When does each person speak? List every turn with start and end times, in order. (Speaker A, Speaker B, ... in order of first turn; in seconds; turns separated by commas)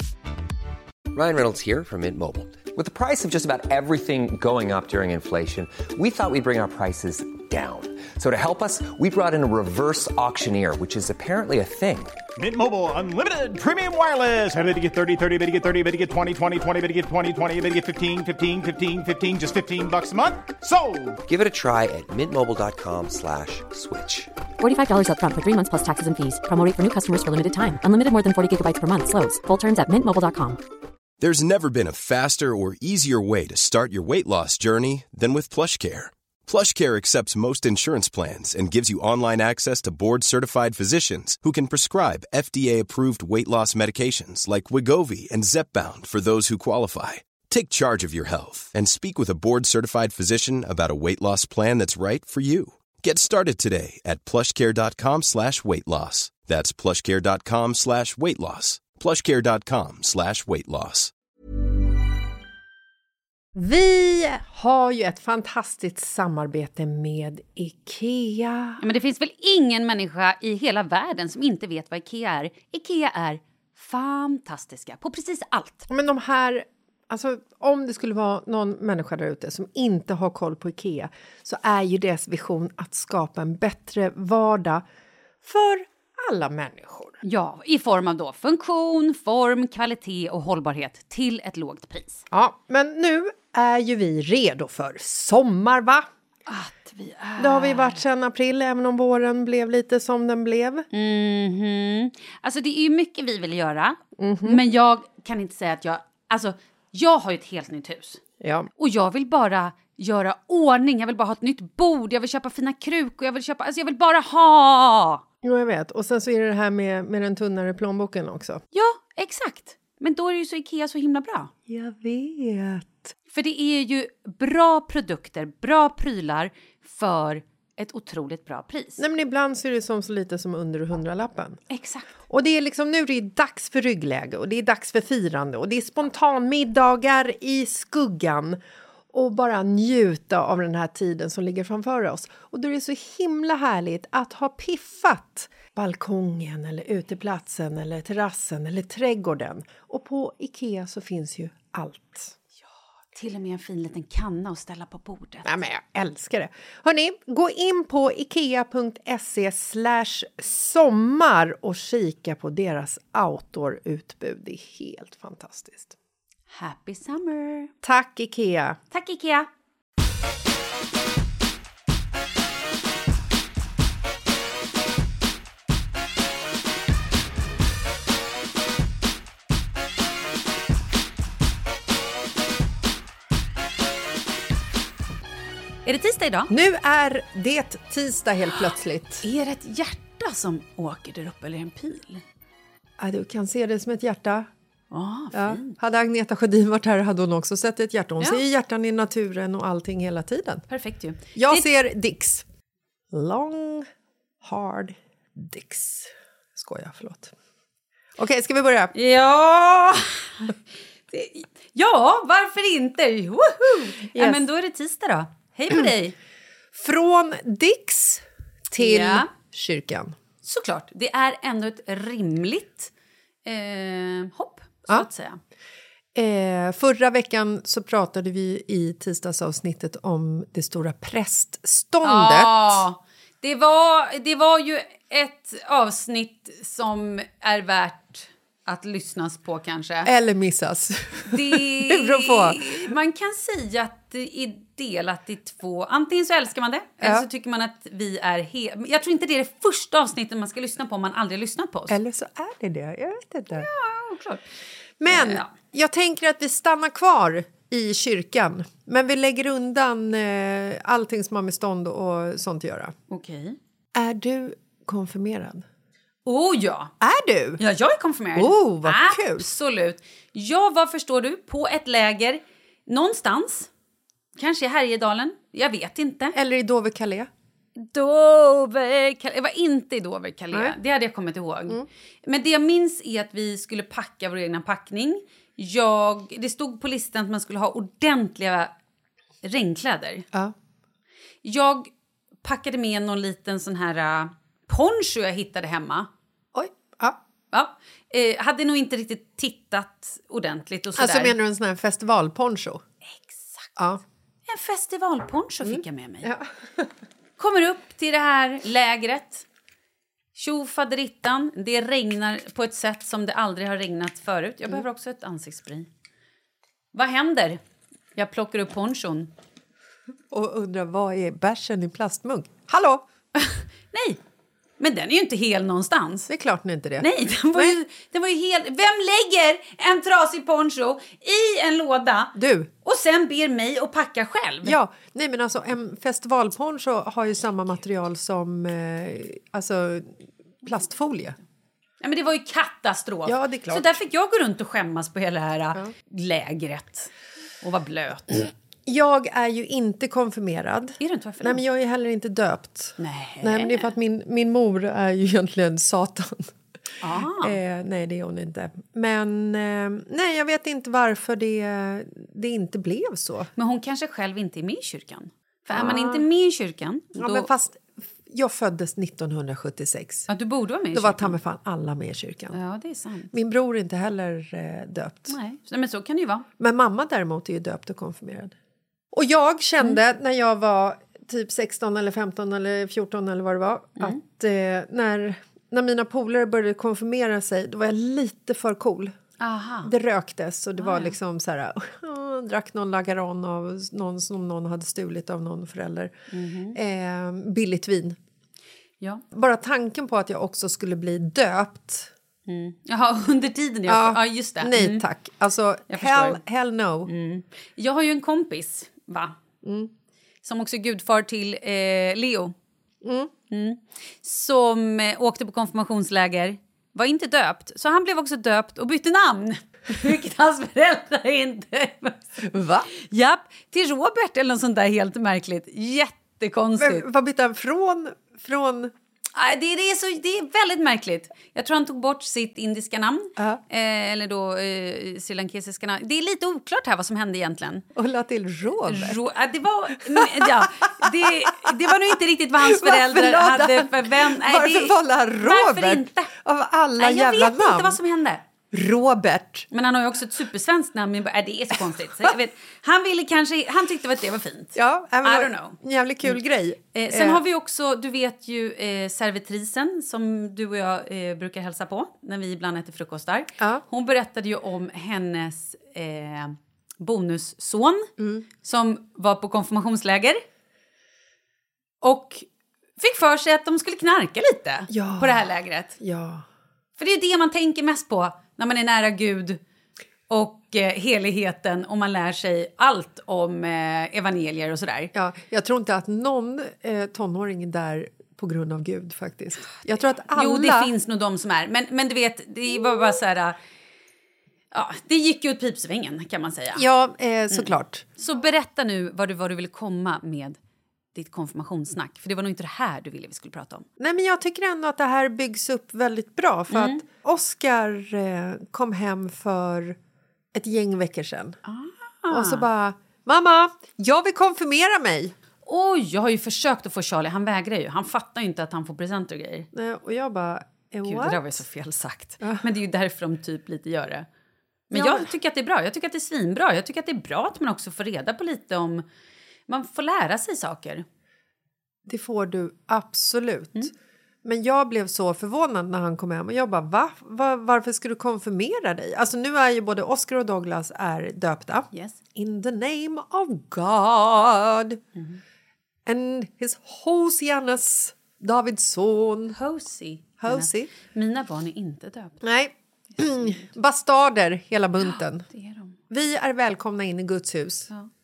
Speaker A: 1.1-12.2, Speaker B: 12.4-21.2, Speaker A: 21.3-24.3, Speaker C: 24.6-30.6, Speaker D: 31.2-61.1, Speaker E: 63.5-68.8, Speaker F: 68.8-75.9, Speaker E: 75.9-84.8, Speaker E: 85.4-87.2, Speaker F: 87.2-92.2, Speaker E: 92.3-96.1, Speaker F: 96.5-98.0, Speaker E: 97.4-100.9, Speaker F: 100.9-108.2, Speaker E: 104.2-104.6, Speaker E: 108.4-108.7, Speaker F: 108.8-115.2, Speaker E: 115.4-118.6, Speaker F: 118.7-121.5, Speaker E: 121.7-123.1, Speaker F: 123.3-129.0, Speaker E: 129.0-131.6, Speaker F: 131.7-132.1, Speaker E: 132.3-138.6, Speaker E: 139.1-152.3, Speaker F: 153.1-155.5, Speaker E: 155.4-166.0, Speaker F: 166.5-167.7, Speaker E: 167.8-168.8, Speaker F: 168.9-169.5, Speaker F: 185.8-186.5, Speaker E: 186.5-189.2, Speaker F: 189.2-192.2, Speaker E: 193.0-194.5, Speaker F: 194.9-195.8, Speaker E: 195.3-200.7, Speaker F: 200.7-201.7, Speaker E: 201.3-202.5, Speaker E: 203.1-203.9, Speaker E: 204.4-207.3, Speaker E: 208.2-208.9, Speaker F: 208.9-210.6, Speaker F: 211.1-216.2, Speaker E: 214.1-214.4, Speaker E: 216.7-220.2, Speaker F: 218.8-219.3, Speaker F: 220.4-222.9, Speaker F: 223.4-225.4, Speaker E: 226.2-232.8, Speaker F: 232.0-240.1, Speaker E: 240.1-242.9, Speaker F: 241.2-252.0, Speaker E: 247.0-247.3, Speaker E: 251.9-253.7, Speaker F: 253.6-254.4, Speaker E: 255.0-262.9, Speaker F: 255.1-255.5, Speaker F: 263.1-263.6, Speaker E: 263.9-265.6, Speaker F: 266.3-266.9, Speaker E: 267.0-267.6, Speaker F: 267.6-273.7, Speaker E: 268.4-269.5, Speaker F: 274.4-276.4, Speaker E: 276.3-277.3, Speaker F: 277.8-288.7, Speaker F: 289.4-290.3, Speaker F: 291.4-291.9, Speaker F: 292.4-296.1, Speaker E: 296.5-297.2, Speaker F: 297.5-301.4, Speaker E: 301.0-302.8, Speaker F: 303.2-303.7, Speaker F: 304.5-306.3, Speaker E: 305.6-306.9, Speaker F: 307.4-309.4, Speaker F: 310.4-315.9, Speaker F: 316.9-317.6, Speaker F: 318.1-319.3, Speaker E: 320.3-323.1, Speaker F: 323.4-324.2, Speaker F: 324.8-326.3, Speaker E: 326.3-327.8, Speaker F: 327.0-334.8, Speaker E: 332.4-332.7, Speaker E: 334.6-341.4, Speaker F: 342.0-347.1, Speaker E: 343.3-344.0, Speaker F: 347.6-348.5, Speaker E: 348.9-356.5, Speaker F: 351.0-351.6, Speaker F: 353.0-353.9, Speaker F: 357.0-357.6, Speaker E: 357.2-363.5, Speaker F: 363.6-367.5, Speaker E: 365.7-366.3, Speaker E: 367.2-370.3, Speaker F: 370.3-371.4, Speaker E: 370.9-372.6, Speaker F: 372.5-373.3, Speaker E: 373.3-375.4, Speaker F: 375.3-376.5, Speaker E: 376.6-378.6, Speaker E: 379.1-389.1, Speaker F: 389.4-389.9, Speaker E: 389.8-396.1, Speaker F: 390.8-391.2, Speaker F: 396.3-396.8, Speaker E: 396.7-398.2, Speaker E: 399.3-402.1, Speaker F: 402.5-405.1, Speaker E: 403.9-407.1, Speaker F: 405.9-406.4, Speaker F: 407.1-409.4, Speaker E: 409.6-409.9, Speaker F: 410.4-412.6, Speaker E: 413.0-413.3, Speaker F: 413.5-422.3, Speaker E: 422.4-422.9, Speaker F: 422.9-427.1, Speaker E: 426.8-428.9, Speaker F: 429.4-437.9, Speaker E: 437.9-439.2, Speaker F: 438.9-446.3, Speaker E: 440.1-442.0, Speaker E: 442.6-448.0, Speaker F: 447.0-448.4, Speaker E: 448.7-449.7, Speaker F: 449.7-455.8, Speaker E: 454.8-457.4, Speaker F: 456.9-470.4, Speaker E: 463.6-463.8, Speaker E: 468.2-468.5, Speaker F: 472.0-472.5, Speaker F: 473.0-476.0, Speaker E: 474.9-475.5, Speaker E: 476.0-476.4, Speaker F: 477.0-479.6, Speaker F: 480.3-485.1, Speaker E: 485.1-490.9, Speaker F: 490.3-493.6, Speaker F: 494.7-496.9, Speaker E: 496.8-498.1, Speaker F: 497.5-500.6, Speaker F: 501.1-503.9, Speaker E: 504.0-510.0, Speaker F: 506.7-507.0, Speaker E: 510.5-511.6, Speaker F: 511.7-512.6, Speaker E: 512.3-515.4, Speaker F: 515.6-519.7, Speaker E: 519.7-521.6, Speaker F: 521.0-524.3, Speaker E: 522.4-522.7, Speaker F: 524.9-529.0, Speaker E: 524.9-525.3, Speaker F: 529.7-531.0, Speaker E: 532.1-533.9, Speaker E: 534.4-545.0, Speaker F: 541.9-542.2, Speaker E: 546.1-549.6, Speaker F: 549.5-552.4, Speaker E: 550.4-550.9, Speaker E: 552.4-555.5, Speaker F: 553.2-553.7, Speaker F: 555.0-556.0, Speaker E: 556.1-557.9